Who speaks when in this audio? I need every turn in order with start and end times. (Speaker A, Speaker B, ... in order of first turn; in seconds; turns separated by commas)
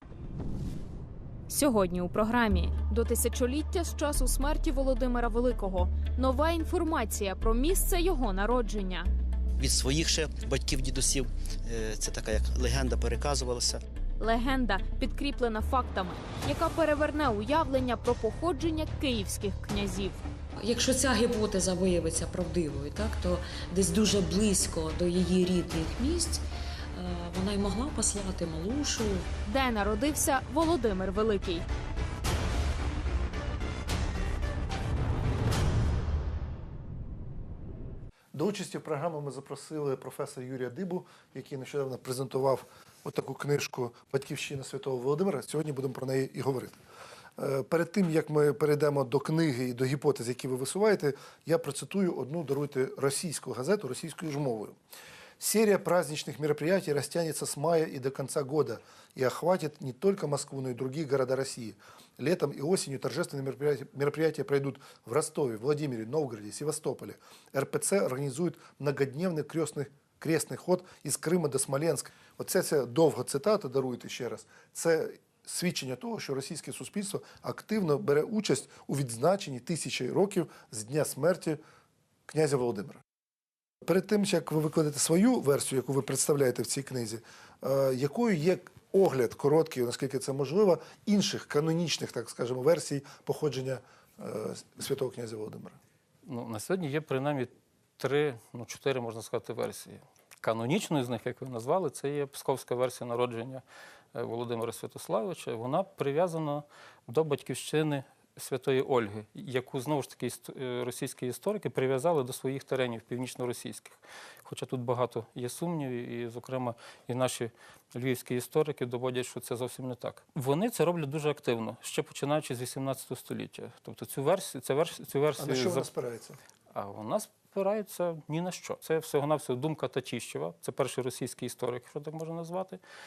Speaker A: 1.5-9.1, Speaker B: 9.6-13.8, Speaker A: 14.2-20.2, Speaker C: 20.6-29.3, Speaker A: 29.4-31.6, Speaker D: 38.3-46.8, Speaker D: 47.4-54.8, Speaker D: 55.4-81.6, Speaker D: 82.3-83.0, Speaker D: 83.8-95.8, Speaker E: 96.2-103.6, Speaker E: 104.1-125.9, Speaker D: 125.4-126.4, Speaker E: 126.7-132.8